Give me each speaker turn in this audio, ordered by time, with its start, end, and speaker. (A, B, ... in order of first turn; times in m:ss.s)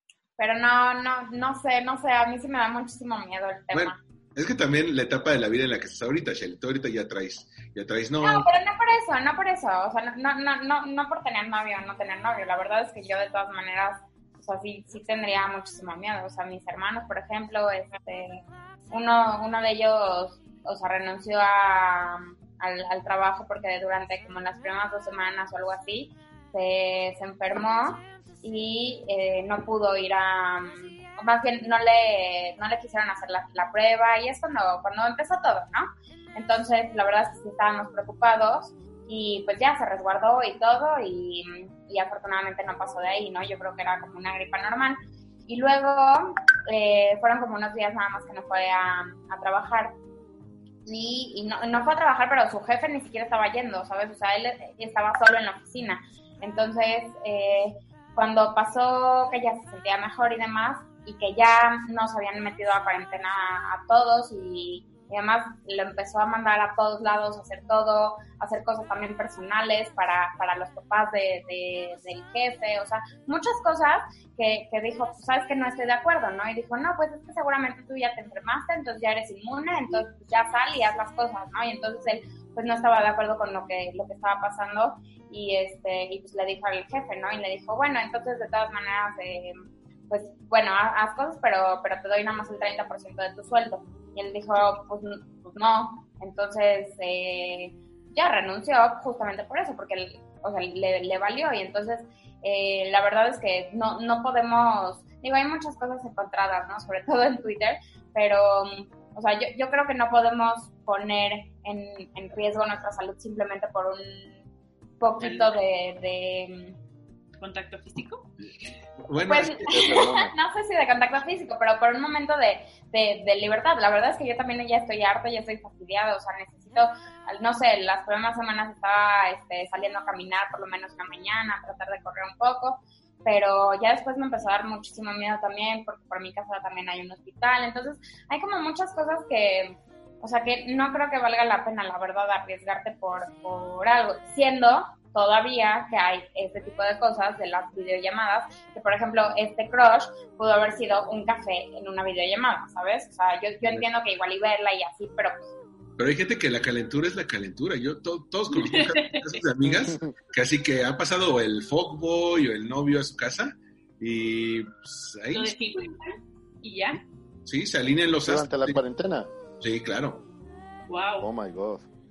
0:00.4-0:03.9 A
0:03.7-0:08.5 B
0:08.2-0:18.4 A
0:18.9-0:45.0 A
0:45.5-0:49.9 A
0:50.9-1:29.5 A
1:30.1-1:54.3 A
1:55.0-1:56.8 A
1:55.2-1:55.6 C
1:57.4-1:58.3 C
1:59.0-2:00.1 B
1:59.3-2:35.5 A
1:59.7-2:00.3 D
2:36.0-2:45.6 B
2:38.5-2:39.4 C
2:39.6-2:40.1 D
2:45.3-2:47.0 C
2:47.5-2:48.8 B
2:48.2-2:49.3 D
2:49.6-2:50.3 B
2:50.9-2:51.3 C
2:51.2-2:51.9 D